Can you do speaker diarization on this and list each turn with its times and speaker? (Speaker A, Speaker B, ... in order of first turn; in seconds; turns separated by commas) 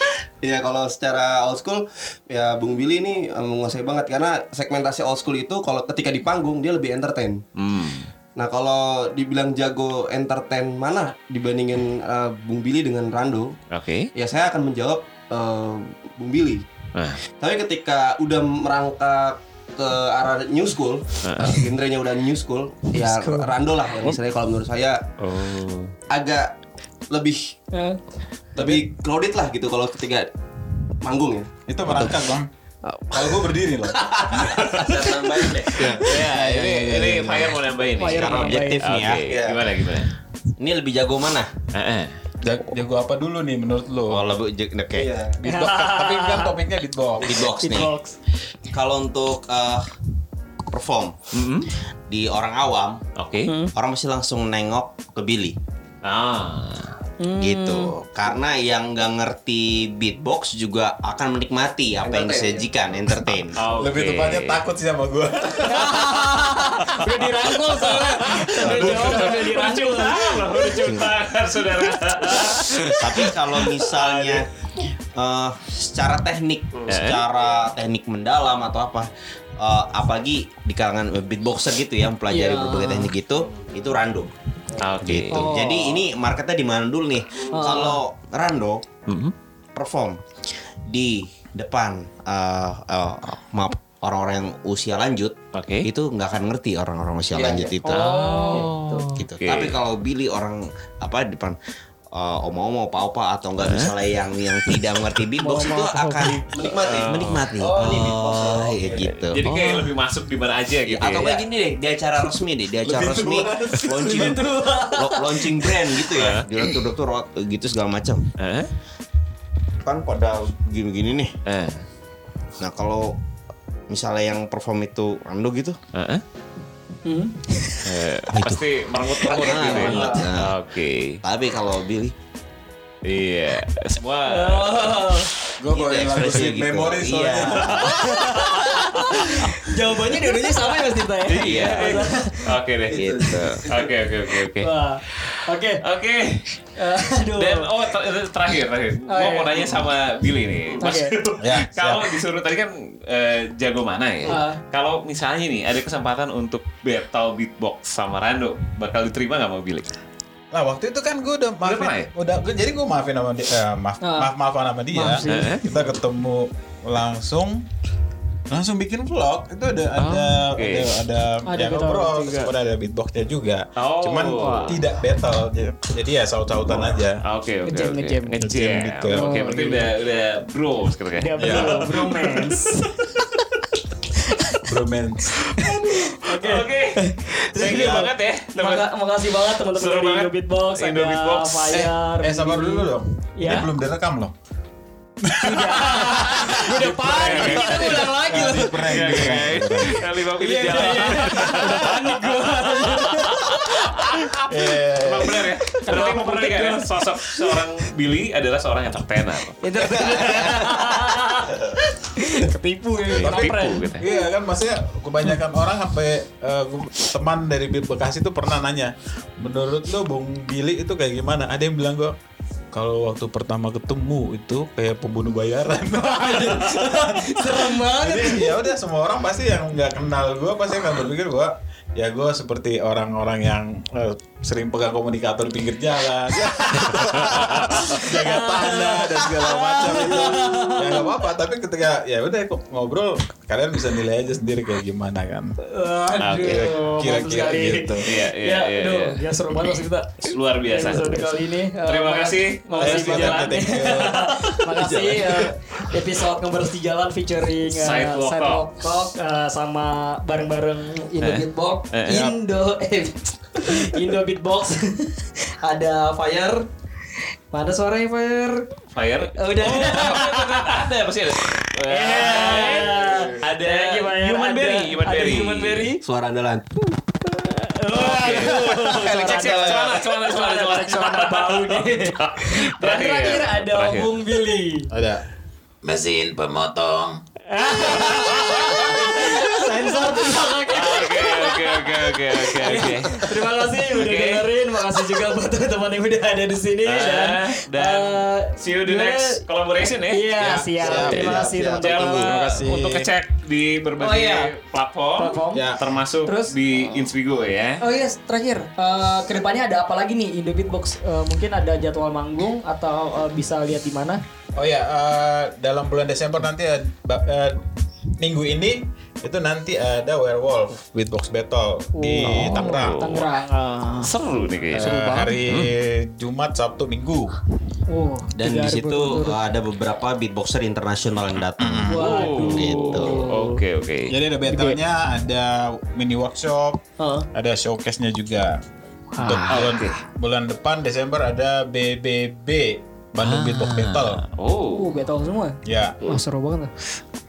Speaker A: 0.4-7.4, Speaker B: 7.6-8.1, Speaker A: 8.4-13.6, Speaker B: 13.7-14.1, Speaker A: 14.2-16.7, Speaker B: 16.9-17.2, Speaker A: 17.4-25.0, Speaker B: 21.2-21.7, Speaker C: 23.0-23.5, Speaker B: 25.2-25.9, Speaker A: 26.1-26.6, Speaker A: 27.1-27.6, Speaker C: 27.7-28.0, Speaker A: 28.6-30.3, Speaker D: 28.6-28.9, Speaker A: 31.0-31.5, Speaker D: 31.7-32.5, Speaker E: 31.9-32.1, Speaker D: 33.1-34.6, Speaker E: 34.1-37.6, Speaker B: 34.4-40.1, Speaker C: 38.0-38.9, Speaker E: 38.1-39.7, Speaker E: 40.6-41.5, Speaker B: 41.7-42.1, Speaker D: 42.4-44.2, Speaker E: 44.1-45.1, Speaker A: 44.9-45.4, Speaker D: 45.4-47.5, Speaker C: 45.5-46.5, Speaker E: 47.2-47.9, Speaker C: 47.5-48.2, Speaker E: 48.7-49.9, Speaker E: 50.7-51.3, Speaker B: 51.3-51.7, Speaker E: 52.1-53.0, Speaker B: 53.2-53.5, Speaker C: 53.5-53.7, Speaker E: 53.7-55.6, Speaker B: 56.0-56.9, Speaker C: 57.2-57.9, Speaker E: 57.4-63.6, Speaker A: 62.0-62.6, Speaker B: 63.6-64.6, Speaker D: 63.8-66.4, Speaker C: 65.7-70.9, Speaker D: 68.3-68.7, Speaker B: 68.4-74.2, Speaker E: 68.6-69.0, Speaker E: 73.0-74.5, Speaker E: 75.2-84.3, Speaker B: 76.9-77.2, Speaker C: 82.3-83.1, Speaker B: 84.8-85.5, Speaker E: 85.0-88.8, Speaker C: 85.3-86.1, Speaker C: 87.5-88.0, Speaker B: 89.1-89.3, Speaker E: 89.8-90.2, Speaker E: 90.9-98.1, Speaker B: 95.5-95.9, Speaker A: 97.3-97.8, Speaker C: 97.8-98.7, Speaker B: 97.9-99.8, Speaker E: 99.1-101.6, Speaker E: 102.1-109.4, Speaker B: 103.6-103.9, Speaker C: 105.4-106.5, Speaker A: 106.5-109.4, Speaker B: 106.8-107.5, Speaker B: 109.3-111.4, Speaker E: 110.9-118.3, Speaker A: 112.9-113.9, Speaker B: 113.8-114.2, Speaker C: 114.0-115.8, Speaker B: 116.1-116.5, Speaker B: 118.4-118.7, Speaker E: 119.8-121.3, Speaker B: 121.5-121.8, Speaker E: 122.6-123.2, Speaker E: 123.9-125.8, Speaker B: 125.9-126.2, Speaker C: 127.0-127.9, Speaker B: 127.8-131.2, Speaker E: 128.3-128.6, Speaker E: 129.2-130.6, Speaker A: 129.5-130.3, Speaker E: 131.2-132.2, Speaker B: 133.0-135.2, Speaker C: 134.3-135.3, Speaker D: 135.6-137.9, Speaker E: 135.7-138.0, Speaker B: 137.4-138.8, Speaker C: 137.8-142.6, Speaker B: 141.3-146.5, Speaker E: 141.4-141.8, Speaker E: 142.9-143.7, Speaker C: 144.6-145.8, Speaker C: 146.8-147.7, Speaker B: 147.3-159.9, Speaker C: 149.1-149.8, Speaker C: 150.8-151.1, Speaker D: 151.4-152.2, Speaker C: 154.3-154.6, Speaker D: 160.5-167.7, Speaker B: 161.6-162.1, Speaker C: 164.0-164.3, Speaker C: 164.9-165.6, Speaker B: 165.2-165.7, Speaker D: 168.5-177.2, Speaker B: 170.0-170.9, Speaker C: 171.5-172.5, Speaker B: 173.8-174.8, Speaker C: 174.4-174.8, Speaker B: 176.8-183.3, Speaker C: 177.6-178.5, Speaker D: 178.4-179.8, Speaker C: 179.1-179.8, Speaker C: 181.2-182.9, Speaker D: 181.4-181.8, Speaker D: 184.7-185.4, Speaker C: 185.6-193.7, Speaker B: 185.7-188.9, Speaker D: 187.6-188.1, Speaker B: 189.6-191.9, Speaker D: 191.7-194.3, Speaker D: 195.3-200.0, Speaker C: 195.4-204.1, Speaker B: 197.1-204.4, Speaker D: 201.1-201.7, Speaker D: 204.5-205.6, Speaker B: 205.0-209.6, Speaker C: 205.8-207.4, Speaker C: 209.6-214.2, Speaker B: 213.1-214.1, Speaker D: 213.2-222.1, Speaker D: 222.7-245.5, Speaker C: 226.0-228.7, Speaker B: 237.0-237.7, Speaker C: 237.5-241.1, Speaker C: 245.7-266.7, Speaker B: 246.2-246.7, Speaker D: 246.4-248.2, Speaker B: 248.0-254.1, Speaker D: 252.8-255.1, Speaker B: 257.7-258.7, Speaker B: 261.2-262.3, Speaker C: 267.5-268.7, Speaker B: 268.9-275.9, Speaker C: 269.2-270.8, Speaker C: 271.8-276.0, Speaker E: 276.0-276.6, Speaker C: 277.2-284.9, Speaker B: 277.9-284.1, Speaker E: 278.9-279.7, Speaker D: 284.9-285.2, Speaker D: 285.8-287.2, Speaker C: 287.5-299.4, Speaker B: 288.1-288.7, Speaker B: 290.7-293.3, Speaker B: 293.9-294.5, Speaker B: 296.8-300.3, Speaker C: 300.1-302.4, Speaker D: 300.4-303.1, Speaker A: 300.8-302.1, Speaker B: 301.1-307.8, Speaker C: 304.0-304.5, Speaker C: 305.2-306.6, Speaker D: 305.5-305.9, Speaker C: 307.8-314.2, Speaker D: 314.6-317.6, Speaker D: 318.2-323.2, Speaker C: 321.9-324.1, Speaker B: 322.2-323.2, Speaker B: 324.0-324.9, Speaker D: 324.7-327.4, Speaker C: 324.8-325.4, Speaker B: 325.5-325.7, Speaker C: 327.9-329.4, Speaker E: 328.4-333.2, Speaker D: 331.6-332.1, Speaker C: 331.9-333.6, Speaker B: 332.0-334.1, Speaker D: 334.1-338.6, Speaker C: 334.5-334.8, Speaker C: 337.0-337.3, Speaker C: 339.1-339.7, Speaker D: 339.2-344.2, Speaker B: 339.5-340.0, Speaker B: 343.2-344.9, Speaker C: 344.7-346.7, Speaker D: 345.6-346.0